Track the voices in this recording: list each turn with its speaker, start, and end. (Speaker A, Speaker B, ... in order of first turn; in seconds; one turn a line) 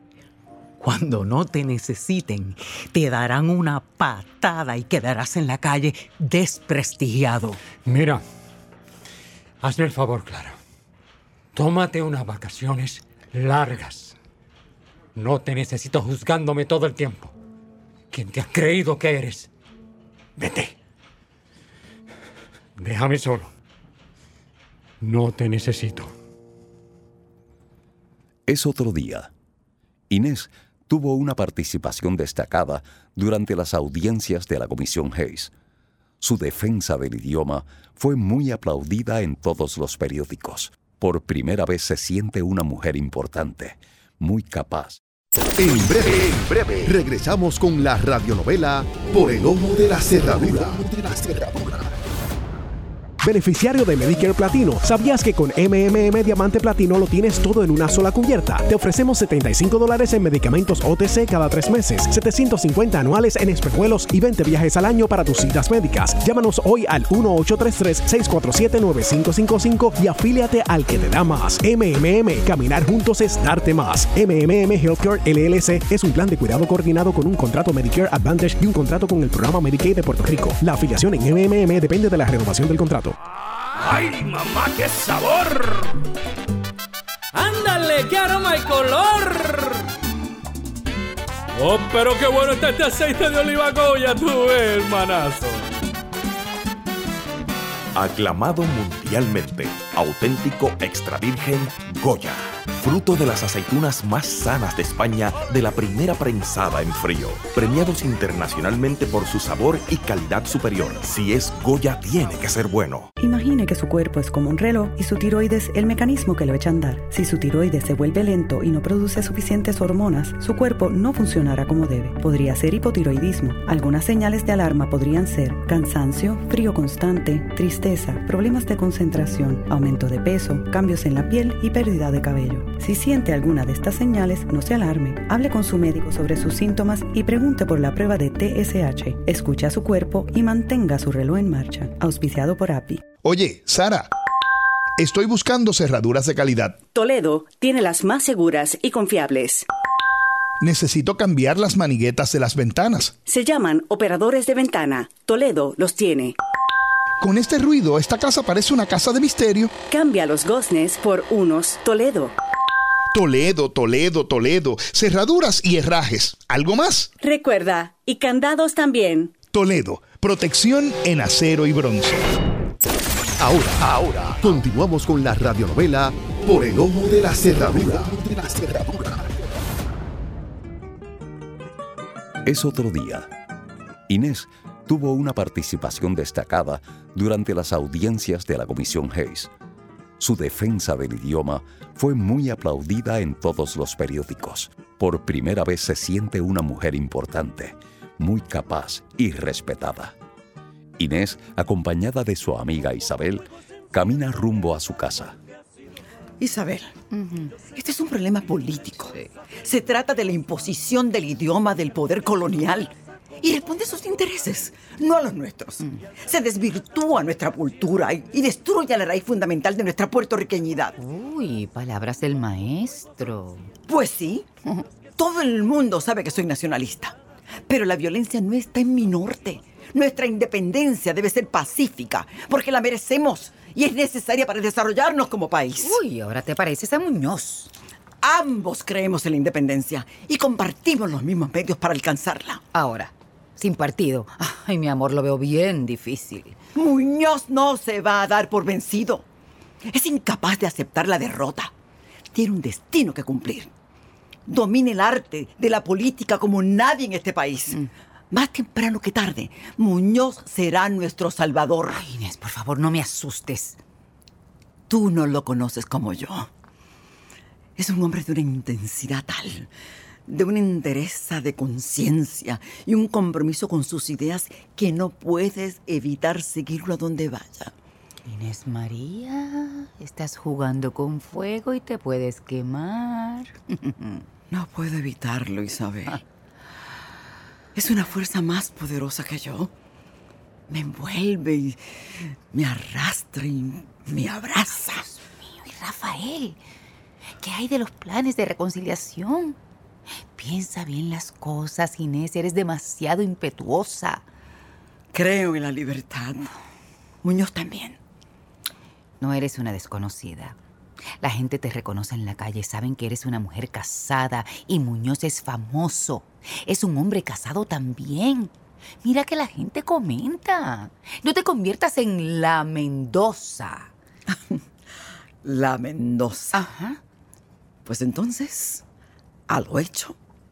Speaker A: 0.8-7.6
Speaker B: 7.8-8.2
Speaker B: 9.6-10.6
Speaker B: 11.5-14.2
Speaker B: 15.2-17.4
Speaker B: 18.1-19.5
Speaker B: 20.4-20.8
Speaker B: 22.8-23.5
Speaker B: 25.0-26.1
Speaker C: 28.5-29.3
Speaker C: 30.1-35.5
Speaker C: 36.2-45.0
Speaker D: 45.6-52.0
Speaker E: 53.2-83.2
Speaker F: 83.8-85.9
Speaker F: 87.3-89.9
Speaker F: 91.5-95.7
Speaker G: 98.0-113.1
Speaker H: 113.2-143.0
Speaker I: 143.2-144.1
Speaker I: 145.0-146.8
Speaker J: 146.9-149.7
Speaker I: 150.6-153.2
Speaker J: 153.2-156.4
Speaker I: 157.2-159.7
Speaker J: 159.9-162.3
Speaker I: 163.1-167.1
Speaker J: 167.2-169.3
Speaker I: 169.5-172.2
Speaker D: 173.4-179.4
Speaker C: 182.4-183.3
Speaker C: 184.1-189.5
Speaker C: 190.2-200.2
Speaker C: 201.0-205.4
Speaker K: 206.4-220.9
Speaker L: 207.1-207.5
Speaker L: 221.0-223.7
Speaker K: 223.9-224.5
Speaker K: 225.2-236.0
Speaker L: 235.8-237.7
Speaker K: 238.2-242.6
Speaker L: 242.7-246.6
Speaker K: 246.8-249.3
Speaker K: 249.9-251.7
Speaker K: 252.3-253.7
Speaker K: 254.5-262.1
Speaker L: 261.9-263.8
Speaker K: 264.9-266.5
Speaker K: 267.8-269.7
Speaker K: 270.3-277.7
Speaker L: 278.3-283.6
Speaker K: 284.5-286.2
Speaker K: 287.8-289.7
Speaker K: 290.7-295.1
Speaker L: 295.5-296.6
Speaker L: 297.4-299.6
Speaker L: 300.3-304.3
Speaker K: 305.1-306.5
Speaker K: 307.2-308.0
Speaker L: 309.2-310.6
Speaker L: 311.2-323.9
Speaker K: 324.3-324.6
Speaker K: 325.4-326.6
Speaker L: 326.5-327.0
Speaker K: 327.9-328.9
Speaker K: 329.5-330.2